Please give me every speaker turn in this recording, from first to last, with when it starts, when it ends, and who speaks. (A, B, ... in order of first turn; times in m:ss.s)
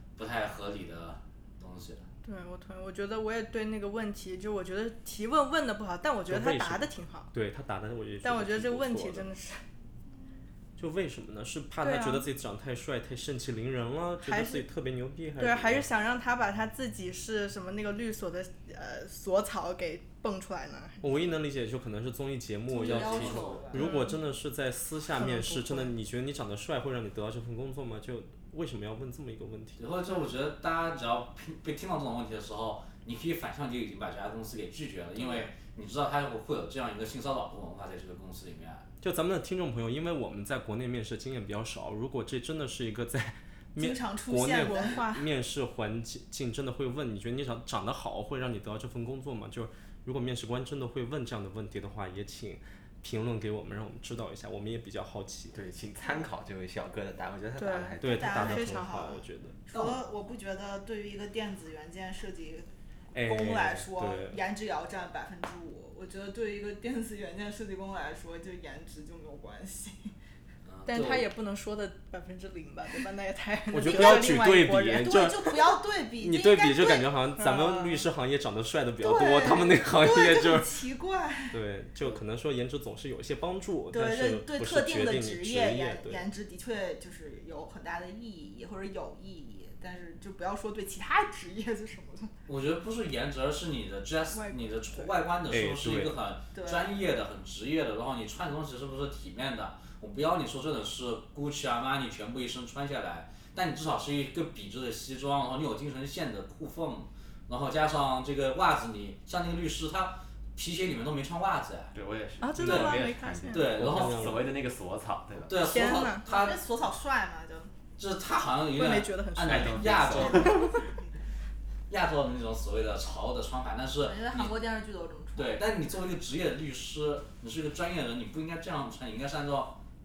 0:00.2-0:02.1 A
0:02.2-0:07.3 B
0:06.3-0:09.3 C
0:08.2-0:09.6 B
0:10.8-0:15.9 C
0:11.8-0:12.3 B
0:14.2-0:14.7 B
0:15.4-0:21.3 B
0:21.0-0:29.8 C
0:22.7-0:24.0 D
0:22.8-0:23.7 A
0:23.7-0:24.2 B
0:25.2-0:25.9 B
0:29.8-0:38.9 A
0:35.2-0:35.5 D
0:39.0-0:55.6 C
0:43.8-0:45.1 D
0:44.6-0:45.3 B
0:55.5-0:58.6 E
0:57.6-0:58.8 B
0:58.0-0:59.9 C
0:58.1-1:10.1 D
1:03.1-1:04.4 C
1:10.6-1:11.3 A
1:10.9-1:15.3 B
1:13.7-1:15.6 C
1:13.9-1:14.2 D
1:15.0-1:17.2 D
1:16.2-1:20.8 C
1:17.4-1:17.9 B
1:19.0-1:21.6 D
1:21.5-1:26.3 C
1:23.9-1:32.3 D
1:32.5-1:52.0 A
1:34.5-1:35.0 B
1:35.5-1:36.2 C
1:36.5-1:37.0 D
1:51.9-1:55.6 E
1:52.4-1:53.7 B
1:52.6-1:54.3 A
1:53.8-1:54.5 C
1:55.5-1:56.6 A
1:55.6-1:56.3 B
1:56.2-1:57.7 D
1:58.0-2:00.7 A
1:58.8-2:00.8 B
1:59.4-2:00.6 E
2:00.1-2:01.1 D
2:01.9-2:04.6 A
2:04.0-2:05.6 D
2:05.4-2:09.8 A